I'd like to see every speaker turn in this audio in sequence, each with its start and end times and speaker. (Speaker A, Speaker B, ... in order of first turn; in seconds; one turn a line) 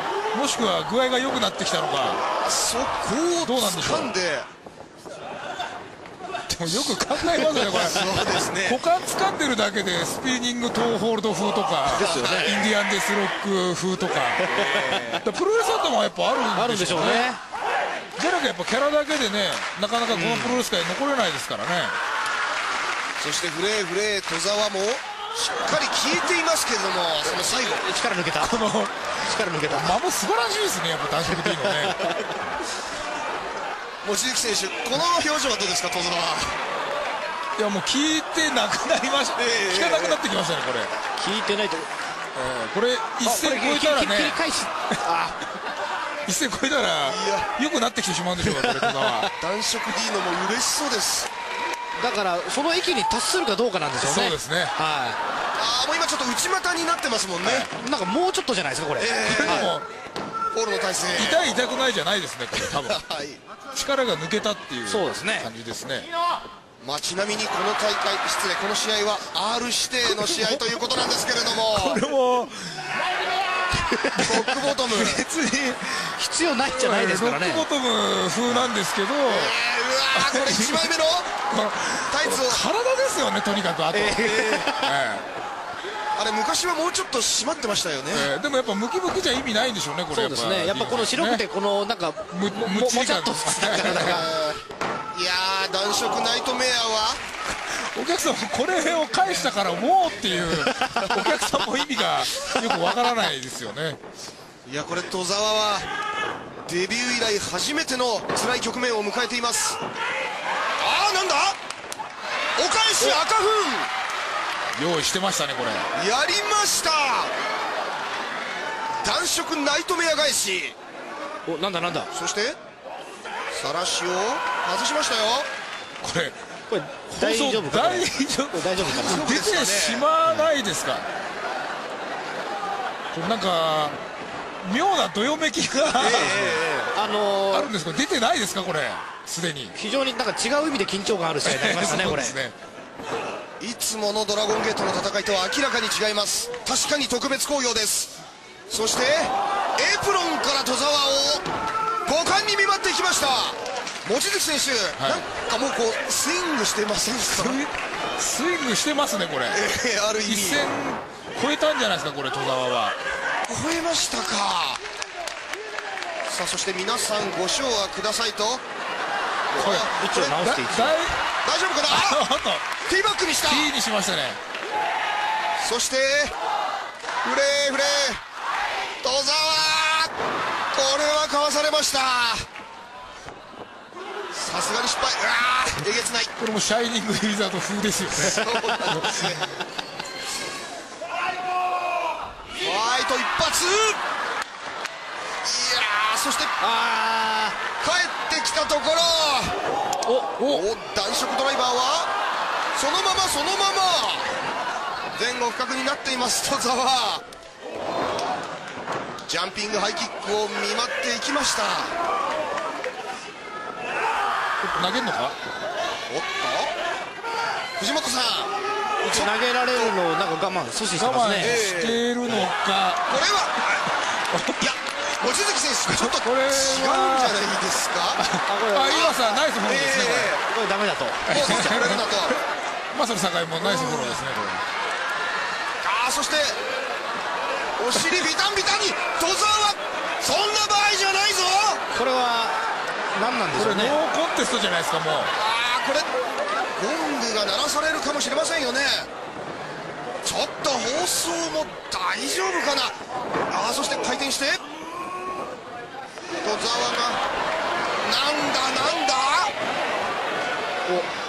Speaker A: 0.3-2.2
Speaker B: 2.4-4.5
Speaker A: 3.4-4.1
Speaker A: 6.5-17.3
Speaker B: 6.9-8.8
Speaker C: 7.3-7.8
Speaker C: 11.9-12.6
Speaker B: 11.9-12.6
Speaker C: 14.4-15.1
Speaker B: 14.5-15.2
Speaker C: 16.5-17.4
Speaker A: 18.2-22.0
Speaker C: 20.1-20.6
Speaker B: 23.2-27.9
Speaker C: 27.7-28.7
Speaker A: 28.4-32.0
Speaker C: 29.2-30.0
Speaker C: 31.2-32.4
Speaker B: 34.0-36.6
Speaker A: 37.6-40.9
Speaker B: 39.4-40.2
Speaker C: 41.2-41.9
Speaker A: 42.3-44.4
Speaker C: 43.2-45.4
Speaker A: 46.2-49.3
Speaker B: 47.0-47.5
Speaker C: 48.6-49.2
Speaker B: 49.4-51.3
Speaker C: 52.0-55.2
Speaker A: 54.0-54.7
Speaker B: 55.6-57.7
Speaker A: 57.4-57.7
Speaker C: 57.7-59.7
Speaker B: 59.0-59.7
Speaker A: 59.2-59.9
Speaker B: 60.5-61.4
Speaker A: 61.1-63.0
Speaker B: 62.5-63.4
Speaker A: 63.7-66.1
Speaker C: 64.8-65.5
Speaker B: 66.8-72.0
Speaker A: 70.0-70.8
Speaker A: 71.7-73.0
Speaker C: 73.8-74.2
Speaker A: 74.1-79.5
Speaker B: 74.2-75.2
Speaker C: 76.2-77.7
Speaker B: 79.2-81.3
Speaker A: 80.1-80.9
Speaker A: 81.4-85.2
Speaker B: 82.1-82.6
Speaker C: 83.9-84.9
Speaker B: 84.2-84.7
Speaker B: 86.2-88.3
Speaker A: 88.1-91.4
Speaker C: 90.1-94.2
Speaker A: 92.3-94.2
Speaker B: 93.8-94.6
Speaker B: 95.1-97.2
Speaker A: 97.5-104.0
Speaker C: 100.6-101.3
Speaker B: 104.6-105.9
Speaker B: 106.7-109.8
Speaker B: 110.8-111.6
Speaker B: 112.5-113.9
Speaker A: 114.8-115.9
Speaker B: 115.9-117.3
Speaker B: 119.0-120.8
Speaker C: 121.5-122.1
Speaker B: 122.1-122.6
Speaker B: 123.5-125.5
Speaker A: 126.0-126.4
Speaker C: 126.7-129.3
Speaker A: 127.1-131.1
Speaker B: 128.8-130.1
Speaker A: 133.1-134.0
Speaker A: 134.6-136.5
Speaker B: 136.0-136.7
Speaker C: 136.0-137.7
Speaker A: 137.5-139.7
Speaker C: 139.7-142.4
Speaker A: 141.4-142.5
Speaker B: 143.6-148.2
Speaker B: 148.7-151.4
Speaker B: 152.0-157.6
Speaker A: 155.0-155.2
Speaker A: 157.2-159.6
Speaker B: 159.5-160.7
Speaker A: 160.2-163.0
Speaker B: 163.5-164.8
Speaker B: 166.3-168.6
Speaker B: 169.5-170.4
Speaker A: 169.6-171.2
Speaker C: 169.9-171.0
Speaker B: 171.4-172.2
Speaker A: 171.9-172.7
Speaker B: 172.8-173.7
Speaker A: 173.4-174.4
Speaker B: 175.6-176.3
Speaker B: 177.2-178.2
Speaker B: 179.0-180.1
Speaker B: 180.7-182.4
Speaker B: 184.3-186.3
Speaker A: 186.4-189.3
Speaker B: 188.1-189.4
Speaker B: 192.6-194.0
Speaker B: 195.4-196.5
Speaker C: 196.6-197.6
Speaker B: 197.8-199.6
Speaker C: 200.1-200.7
Speaker B: 200.4-202.1
Speaker B: 202.7-204.3
Speaker B: 205.1-207.2
Speaker B: 209.2-211.9
Speaker A: 214.6-215.3
Speaker B: 216.1-216.7
Speaker B: 217.8-218.5
Speaker C: 219.0-221.6
Speaker B: 219.0-219.9
Speaker A: 221.0-223.0
Speaker B: 221.4-222.5
Speaker B: 223.1-223.9
Speaker A: 224.3-224.7
Speaker B: 224.6-228.2
Speaker A: 225.9-227.4
Speaker A: 228.2-230.4
Speaker C: 228.4-229.2
Speaker B: 229.6-230.4
Speaker C: 230.4-231.4
Speaker A: 231.3-232.3
Speaker B: 231.3-232.4
Speaker A: 232.9-234.6
Speaker B: 233.6-234.2
Speaker B: 235.8-236.6
Speaker B: 237.8-241.8
Speaker C: 241.9-242.6
Speaker C: 243.1-244.0
Speaker A: 243.5-245.3
Speaker B: 245.3-246.1
Speaker B: 246.8-249.1
Speaker B: 250.2-252.9
Speaker B: 253.5-254.6
Speaker B: 256.4-257.2
Speaker B: 258.0-259.5